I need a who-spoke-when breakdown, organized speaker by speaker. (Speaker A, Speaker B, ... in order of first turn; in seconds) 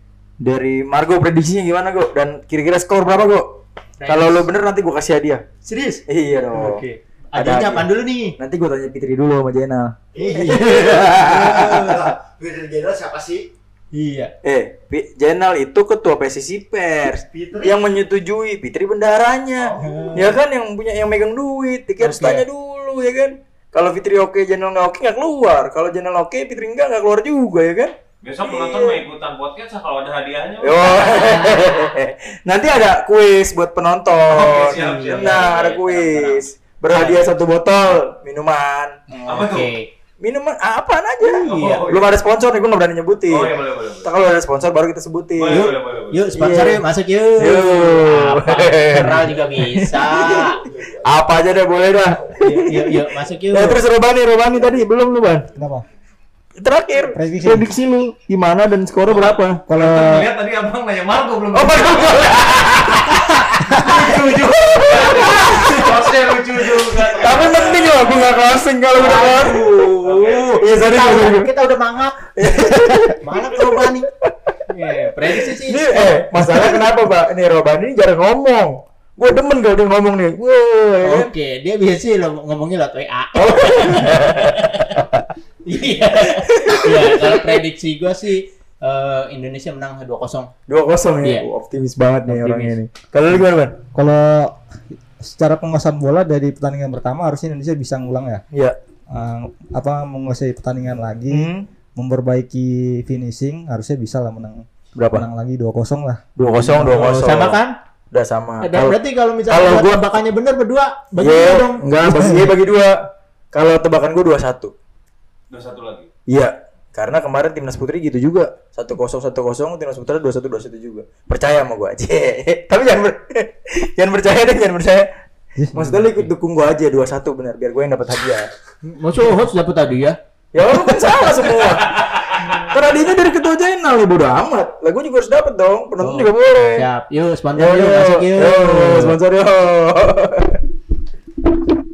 Speaker A: 0.4-5.4, 6.1-6.8, 7.3-11.8, 14.4-29.0, 30.6-39.5, 40.2-45.7, 46.3-46.8, 47.4-55.5, 56.6-59.6, 61.5-71.5, 72.4-74.5, 75.0-81.3, 83.3-85.3, 86.3-87.6, 90.7-93.8, 98.5-98.8, 101.3-101.7, 105.0-105.3, 106.4-107.6, 108.1-110.0, 111.2-113.0, 113.5-114.7, 116.3-125.1, 125.7-128.4, 130.5-136.9, 137.6-140.6
Speaker B: 4.0-4.5, 5.6-6.0, 6.5-8.3, 10.2-12.1, 13.9-14.3, 19.8-20.4, 22.0-22.4, 30.8-31.9, 34.6-37.3, 39.2-39.9, 45.5-50.7, 52.4-53.8, 67.2-68.3, 68.9-74.1, 74.7-76.8, 81.0-85.0, 85.6-90.5, 92.2-92.8, 106.8-107.8, 108.6-112.2, 128.8-130.2, 130.7-131.2, 136.0-139.2
Speaker C: 10.1-13.4, 17.4-17.7, 19.7-20.1
Speaker D: 28.2-31.1, 34.2-35.5, 39.2-39.7, 41.3-42.1, 43.3-44.1, 45.4-46.3, 59.1-62.7, 63.7-67.9, 70.0-70.6, 115.5-116.1, 132.0-132.4
Speaker E: 55.5-55.8, 57.1-57.7, 59.7-60.3, 93.9-98.4, 99.1-107.1, 125.6-126.1